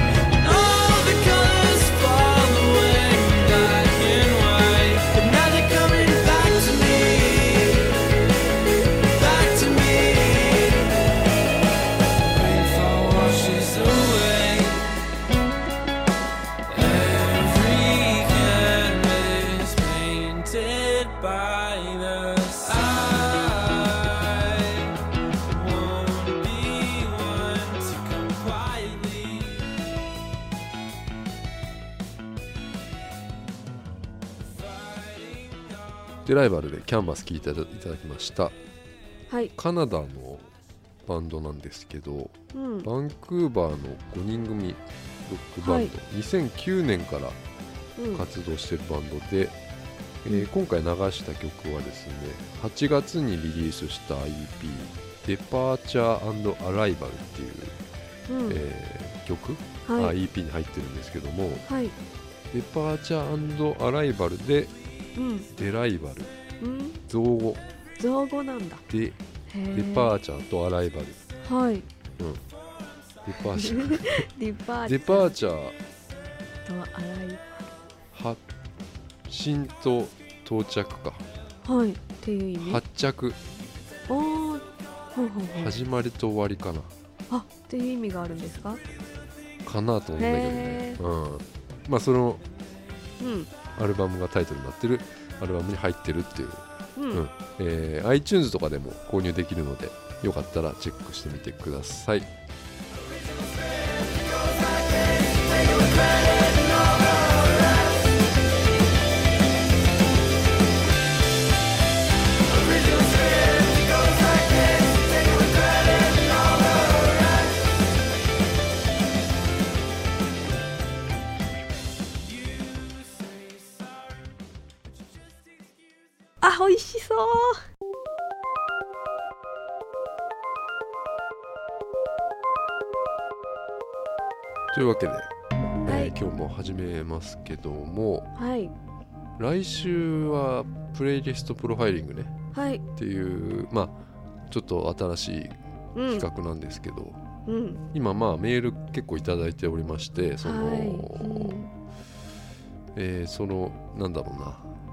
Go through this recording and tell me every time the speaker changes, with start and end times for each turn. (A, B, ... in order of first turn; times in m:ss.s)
0:00.4-0:08.0 A
0:09.1-0:11.0 A
0:12.2-0:14.9 A
0:16.7-0:29.7 A
0:34.6-0:35.8 A
0:36.2-0:38.6 B
0:39.3-0:39.5 C
0:39.6-0:40.5 B
0:41.1-0:47.4 B
0:42.5-0:42.9 C
0:45.6-0:45.9 C
0:48.0-0:48.2 C
0:48.1-0:49.6 B
0:50.2-0:57.8 B
0:58.3-0:58.6 C
0:58.5-1:01.7 B
0:59.8-1:00.2 C
1:01.7-1:02.0 C
1:02.5-1:04.7 B
1:05.2-1:05.5 C
1:05.6-1:06.4 B
1:06.6-1:07.0 C
1:07.1-1:07.6 B
1:08.0-1:08.8 C
1:08.9-1:09.2 B
1:09.5-1:10.1 C
1:09.7-1:11.2 B
1:11.4-1:11.9 C
1:12.2-1:12.4 B
1:13.2-1:14.3 B
1:13.4-1:15.3 C
1:14.8-1:15.8 B
1:16.6-1:17.7 C
1:18.1-1:18.4 B
1:19.3-1:21.3 B
1:21.6-1:22.8 C
1:22.6-1:23.4 B
1:24.1-1:25.7 C
1:25.6-1:26.9 B
1:27.3-1:28.8 C
1:29.6-1:32.4 B
1:30.2-1:31.0 C
1:33.2-1:33.5 C
1:33.8-1:42.3 B
1:37.0-1:37.2 C
1:45.4-1:47.2 A
1:52.6-1:57.2 A
2:02.2-2:04.2 A
2:06.4-2:07.6 C
2:14.7-2:15.3 B
2:15.8-2:18.3 B
2:15.9-2:16.2 C
2:18.4-2:18.7 C
2:19.4-2:22.4 B
2:22.5-2:22.8 C
2:23.0-2:24.0 B
2:24.5-2:25.6 B
2:26.0-2:26.3 C
2:26.1-2:27.2 B
2:27.5-2:27.8 C
2:27.9-2:31.7 B
2:30.4-2:31.7 C
2:33.0-2:34.6 B